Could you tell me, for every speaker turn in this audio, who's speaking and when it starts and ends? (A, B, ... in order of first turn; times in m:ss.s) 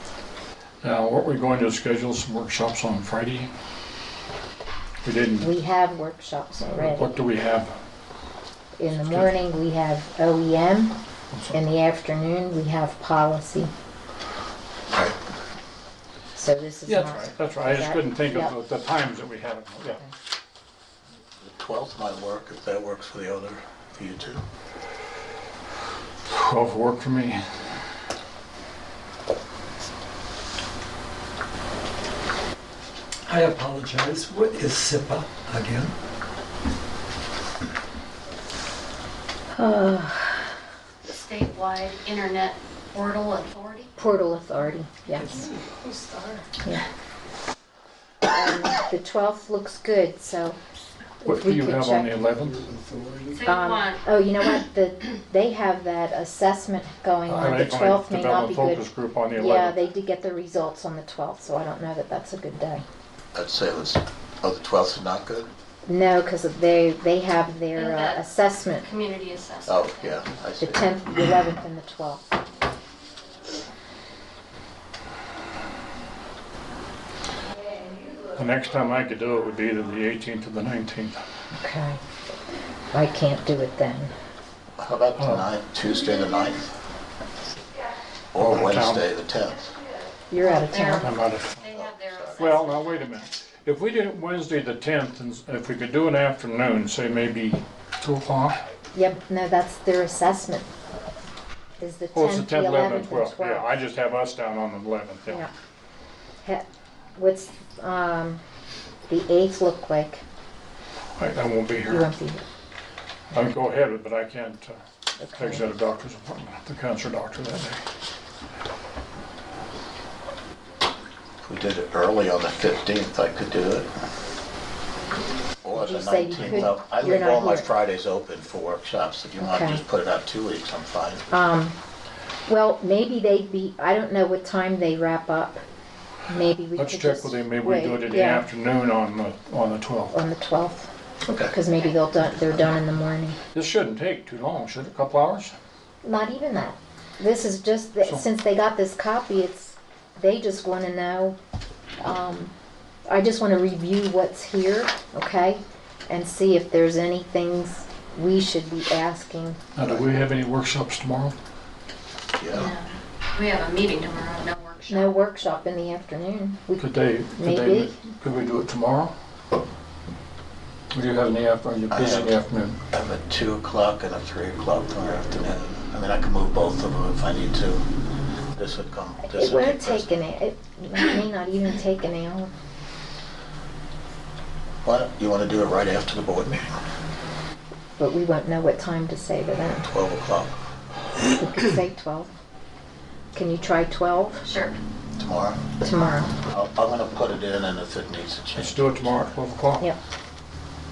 0:00.8-0:03.5 A
0:05.0-0:05.5 A
0:05.4-0:07.1 B
0:06.7-0:07.7 A
0:08.8-0:11.0 B
0:11.5-0:13.7 B
0:14.9-0:15.2 C
0:16.3-0:18.5 B
0:16.9-0:20.0 A
0:21.4-0:24.4 C
0:26.2-0:27.4 A
0:33.2-0:35.9 D
0:39.5-0:40.5 B
0:41.0-0:43.9 E
0:44.0-0:45.5 B
0:45.2-0:45.6 D
0:45.8-0:46.3 E
0:48.3-0:50.6 B
0:51.2-0:52.1 B
0:51.2-0:52.7 A
0:52.6-0:53.3 D
0:53.3-0:54.0 E
0:53.4-1:02.8 B
0:57.3-0:59.8 A
1:03.3-1:05.5 C
1:05.8-1:08.9 B
1:07.7-1:08.2 E
1:08.8-1:10.0 E
1:09.7-1:10.9 C
1:10.6-1:12.2 B
1:18.3-1:21.2 A
1:21.5-1:22.0 B
1:22.9-1:24.1 B
1:24.8-1:26.7 C
1:25.2-1:25.4 A
1:28.3-1:29.7 C
1:28.4-1:29.0 A
1:30.3-1:31.1 B
1:30.4-1:33.0 E
1:31.0-1:31.7 A
1:32.4-1:38.6 A
1:38.9-1:40.7 B
1:41.8-1:43.7 B
1:42.1-1:45.5 A
1:47.2-1:48.4 B
1:49.1-1:50.2 B
1:51.2-1:52.1 A
1:51.9-1:52.4 B
1:53.3-1:54.8 A
1:55.2-1:55.6 B
1:55.4-1:57.8 A
2:01.4-2:03.9 C
2:05.6-2:11.2 C
2:05.7-2:07.7 B
2:09.4-2:09.8 B
2:11.3-2:11.8 B
2:12.5-2:15.6 B
2:16.3-2:18.4 B
2:16.8-2:20.1 A
2:20.1-2:20.9 B
2:21.2-2:21.5 C
2:21.5-2:23.4 B
2:23.5-2:25.5 A
2:26.0-2:31.4 B
2:32.0-2:32.5 B
2:33.1-2:39.6 B
2:39.7-2:41.4 A
2:42.4-2:42.7 C
2:42.5-2:45.2 E
2:44.9-2:47.9 B
2:46.8-2:49.1 A
2:50.9-2:52.8 A
2:51.9-2:52.4 C
2:52.9-2:57.8 C
2:58.5-3:00.1 C
2:59.2-3:02.5 B
3:04.8-3:06.8 C
3:08.0-3:09.9 B
3:09.8-3:10.6 C
3:11.3-3:12.3 B
3:13.3-3:14.5 B
3:14.4-3:14.8 E
3:15.2-3:15.6 C
3:15.8-3:16.3 B
3:16.4-3:19.1 C
3:18.6-3:19.9 A